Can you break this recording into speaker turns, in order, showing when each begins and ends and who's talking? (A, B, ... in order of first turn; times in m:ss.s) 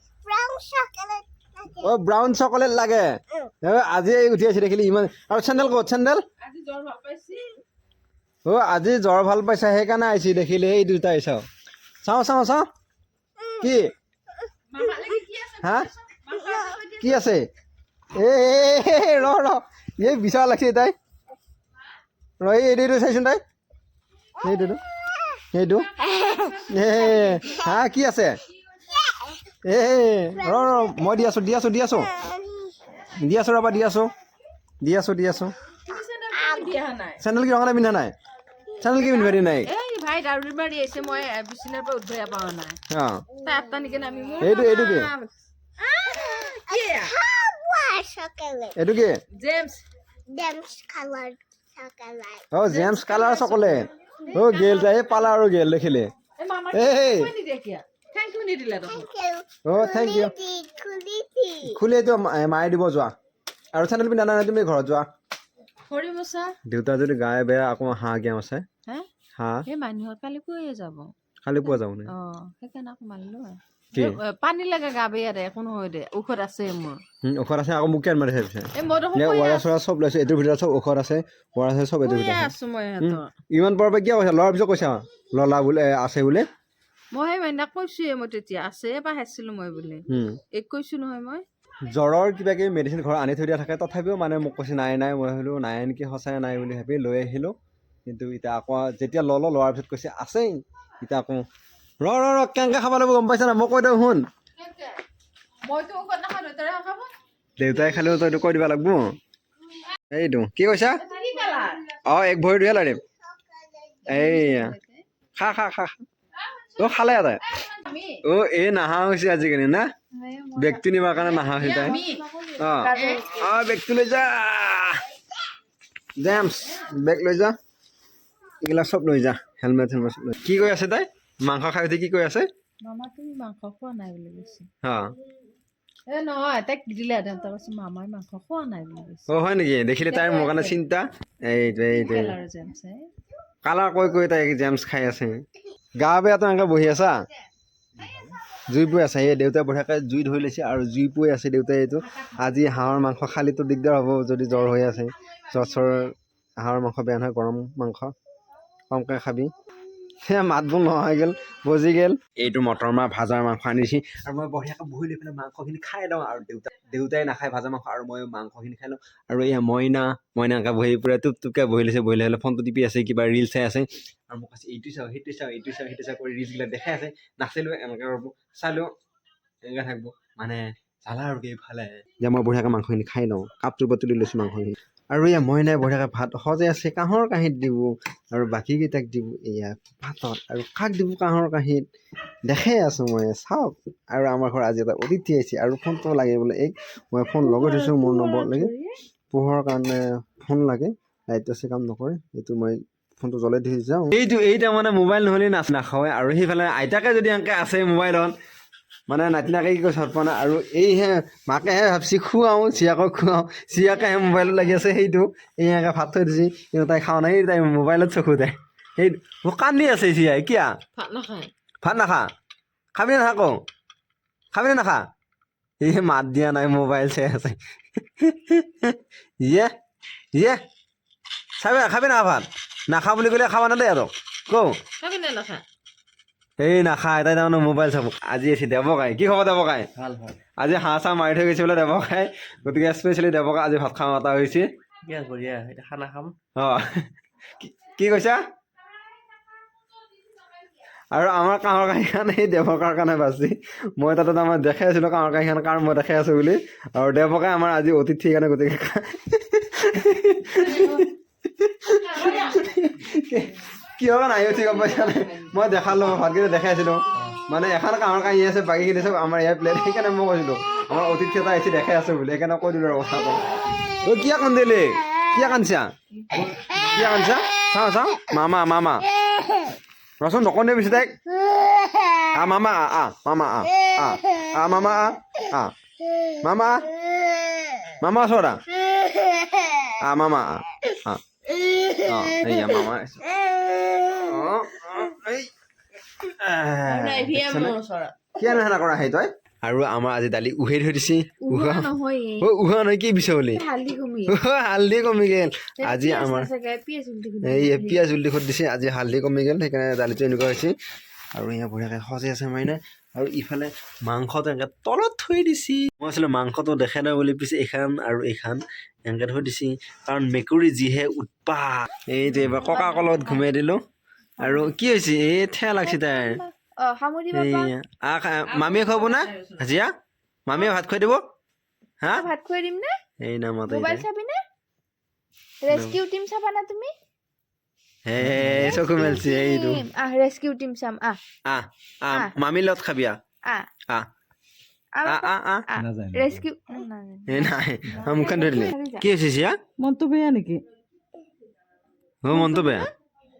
0:00.2-0:01.9 A
0:01.8-0:03.1 B
0:03.6-0:06.2 B
0:06.4-0:07.6 C
0:08.4-0:11.4 B
0:12.0-0:12.7 B
0:13.6-0:13.9 B
0:14.7-0:17.3 C
0:15.6-0:15.9 B
0:17.0-0:17.5 B
0:18.1-0:20.9 B
0:22.4-0:23.4 B
0:24.4-0:24.8 B
0:25.5-0:25.9 B
0:26.0-0:27.6 C
0:26.7-0:28.4 B
0:29.0-0:29.3 A
0:29.6-0:32.1 B
0:30.4-0:31.0 A
0:33.2-0:34.1 B
0:34.8-0:35.5 B
0:35.8-0:37.2 C
0:37.2-0:38.1 B
0:38.8-0:39.7 B
0:39.0-0:42.8 C
0:42.9-0:43.2 B
0:43.4-0:45.3 C
0:44.4-0:45.1 B
0:45.8-0:48.8 A
0:46.2-0:47.2 C
0:48.8-0:49.2 B
0:49.3-0:49.8 C
0:50.3-0:52.5 A
0:52.5-0:56.1 B
0:52.6-0:55.1 C
0:56.4-0:59.1 C
0:56.7-0:57.3 B
0:58.9-1:01.8 A
0:59.6-1:00.3 B
1:01.6-1:03.1 B
1:03.7-1:05.0 B
1:05.9-1:06.6 C
1:06.6-1:08.6 B
1:09.4-1:09.6 B
1:09.7-1:11.1 C
1:11.4-1:12.1 B
1:11.6-1:17.0 C
1:13.9-1:14.2 B
1:17.2-1:26.4 B
1:18.7-1:19.7 C
1:22.0-1:23.3 C
1:27.1-1:31.4 C
1:30.1-1:30.4 B
1:31.9-1:37.5 B
1:38.0-1:41.4 B
1:42.0-1:44.2 B
1:44.6-1:45.0 C
1:45.6-1:47.1 C
1:47.6-1:49.2 B
1:50.1-1:51.0 B
1:51.0-1:51.9 C
1:52.0-1:53.0 B
1:53.4-1:54.0 A
1:54.1-1:55.0 C
1:54.1-1:54.8 B
1:55.4-1:55.9 B
1:56.4-1:58.2 C
1:56.8-1:57.4 B
1:58.2-1:59.9 B
2:00.1-2:00.8 C
2:00.5-2:02.0 B
2:01.4-2:02.3 C
2:01.7-2:03.6 D
2:02.6-2:05.0 B
2:02.9-2:03.3 C
2:06.2-2:07.5 B
2:08.6-2:12.4 B
2:12.8-2:14.7 C
2:14.8-2:15.1 B
2:16.1-2:19.3 C
2:19.3-2:22.4 B
2:20.1-2:20.8 C
2:21.7-2:23.0 C
2:23.6-2:25.4 B
2:26.0-2:27.2 B
2:28.0-2:38.1 B
2:38.9-2:39.5 B
2:40.2-2:58.9 B
2:59.6-3:11.8 B
3:12.5-3:18.7 B
3:17.4-3:19.0 D
3:19.3-3:28.3 B
3:29.1-3:40.7 B
3:41.0-3:41.5 C
3:41.8-3:42.3 B
3:42.9-3:43.6 B
3:44.5-3:45.0 B
3:45.8-3:47.6 B
3:48.1-3:49.7 B
3:50.3-3:50.6 B
3:51.6-3:54.8 B
3:55.0-3:55.6 C
3:56.6-3:59.9 B
4:00.0-4:00.4 E
4:00.6-4:04.7 B
4:05.0-4:06.3 E
4:06.6-4:07.0 B
4:07.6-4:08.4 B
4:11.1-4:35.9 B
4:20.6-4:21.0 C
4:22.0-4:22.8 C
4:24.6-4:25.5 C
4:36.8-4:39.0 B
4:40.2-4:41.2 B
4:41.5-4:42.3 A
4:42.3-4:45.7 B
4:46.4-4:46.9 B
4:47.4-4:47.7 A
4:48.0-4:48.6 B
4:49.0-4:49.8 A
4:50.0-4:51.2 B
4:52.0-4:53.2 B
4:53.5-4:54.3 A
4:54.2-4:55.5 B
4:56.2-4:57.8 B
4:56.8-4:58.2 C
4:58.3-5:03.6 B
5:01.4-5:02.5 D
5:03.5-5:04.4 D
5:04.3-5:06.5 B
5:05.8-5:08.0 D
5:07.4-5:10.7 B
5:11.3-5:23.8 B
5:22.5-5:23.4 D
5:24.4-5:24.7 D
5:24.4-5:26.4 B
5:25.8-5:27.7 D
5:27.3-5:29.9 B
5:28.5-5:29.6 C
5:30.4-5:31.2 B
5:32.0-5:32.3 B
5:32.1-5:33.0 D
5:33.2-5:34.0 B
5:33.7-5:34.4 D
5:35.6-5:36.9 D
5:35.7-5:36.0 B
5:38.0-5:39.8 B
5:38.2-5:39.0 E
5:38.5-5:41.2 D
5:41.4-5:43.2 B
5:45.0-5:49.0 D
5:45.0-5:45.7 B
5:45.8-5:46.4 E
5:47.3-5:49.6 B
5:49.8-5:50.6 C
5:52.2-5:52.9 B
5:52.3-5:52.8 D